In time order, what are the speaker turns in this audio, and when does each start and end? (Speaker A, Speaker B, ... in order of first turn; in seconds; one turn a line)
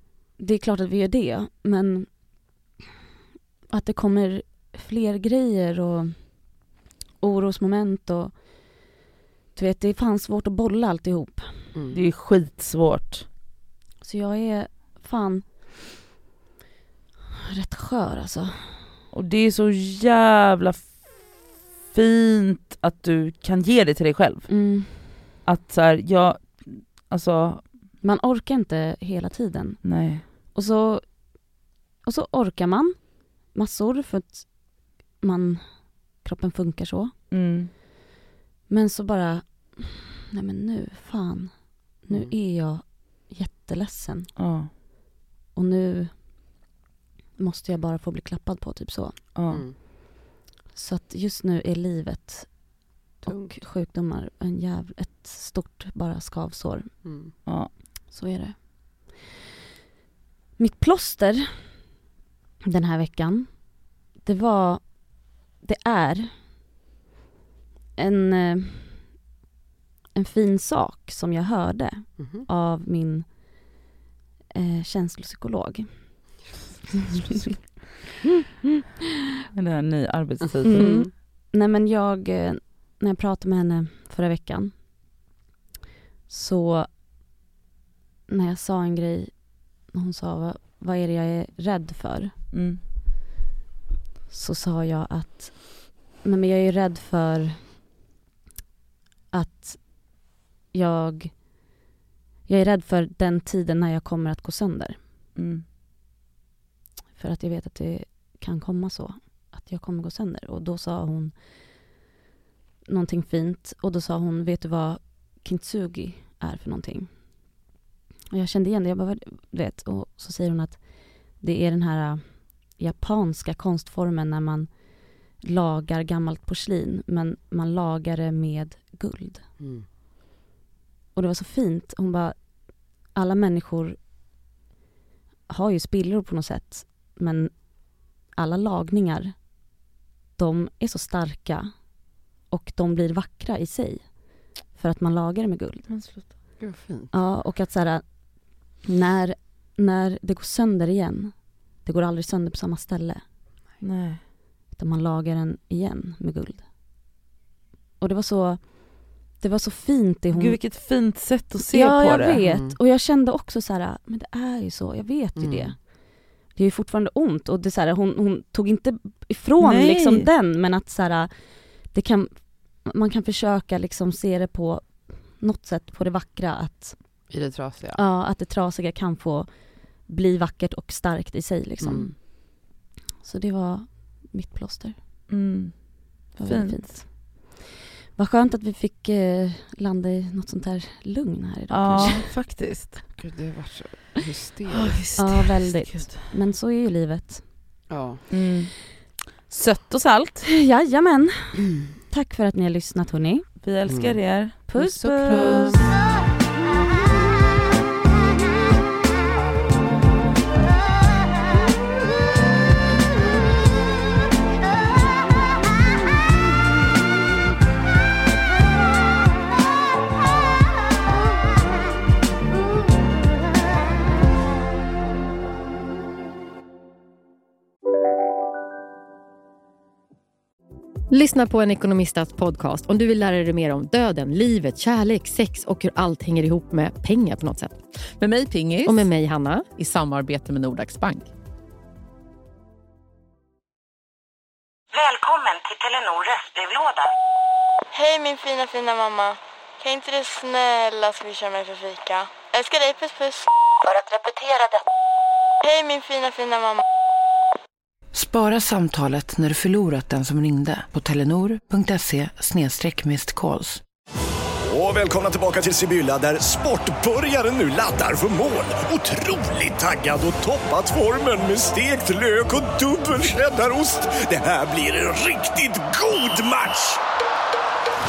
Speaker A: 0.4-2.2
Speaker A: 3.7-6.6
Speaker A: 7.2-8.8
Speaker A: 9.6-11.6
Speaker B: 11.7-12.0
Speaker C: 11.9-13.3
Speaker A: 14.0-15.5
Speaker A: 17.5-18.8
Speaker C: 19.1-21.0
Speaker C: 21.9-24.5
Speaker A: 24.5-25.1
Speaker C: 25.4-27.7
Speaker A: 28.0-37.1
Speaker C: 29.8-30.2
Speaker C: 37.3-37.7
Speaker A: 38.7-44.3
Speaker C: 44.4-44.7
Speaker A: 45.5-46.2
Speaker A: 47.4-49.2
Speaker C: 49.4-49.6
Speaker B: 49.5-49.8
Speaker A: 50.7-57.0
Speaker B: 53.3-53.6
Speaker B: 57.0-57.3
Speaker C: 57.5-57.7
Speaker A: 58.1-59.2
Speaker A: 60.6-61.8
Speaker A: 62.6-66.3
Speaker A: 68.0-69.1
Speaker A: 70.2-73.8
Speaker B: 72.2-72.5
Speaker A: 74.5-76.3
Speaker C: 79.5-81.1
Speaker A: 80.7-84.8
Speaker B: 80.7-81.0
Speaker A: 86.3-86.9
Speaker A: 88.3-92.3
Speaker C: 92.5-92.8
Speaker A: 94.3-97.6
Speaker A: 99.3-101.4
Speaker A: 102.5-105.0
Speaker C: 105.4-105.6
Speaker A: 107.2-111.7
Speaker A: 112.9-117.5
Speaker A: 118.3-129.5
Speaker B: 129.6-129.9
Speaker A: 131.2-134.0
Speaker A: 135.5-139.8
Speaker A: 140.4-145.9
Speaker C: 145.9-146.3
Speaker B: 146.6-147.1
Speaker A: 147.1-153.2
Speaker C: 153.8-154.2
Speaker A: 154.7-156.7
Speaker A: 158.0-160.6
Speaker C: 160.3-162.4
Speaker A: 161.7-177.0
Speaker B: 162.4-162.8
Speaker B: 165.4-165.7
Speaker C: 169.6-170.3
Speaker B: 177.3-178.0
Speaker A: 177.9-182.6
Speaker B: 181.8-182.1
Speaker A: 183.2-185.0
Speaker C: 185.3-186.9
Speaker A: 186.4-187.6
Speaker A: 188.2-192.3
Speaker C: 191.7-193.0
Speaker B: 193.2-195.0
Speaker C: 194.7-196.2
Speaker A: 195.2-197.4
Speaker B: 197.9-198.2
Speaker C: 198.3-198.8
Speaker C: 199.5-200.5
Speaker A: 200.6-203.5
Speaker C: 203.6-205.9
Speaker B: 203.9-204.2
Speaker A: 204.7-205.8
Speaker D: 231.1-237.9
Speaker E: 238.2-238.9
Speaker D: 238.8-239.7
Speaker E: 239.8-241.3
Speaker F: 244.9-247.1
Speaker G: 247.9-254.8
Speaker G: 255.6-256.8
Speaker H: 258.1-263.8
Speaker I: 264.7-277.0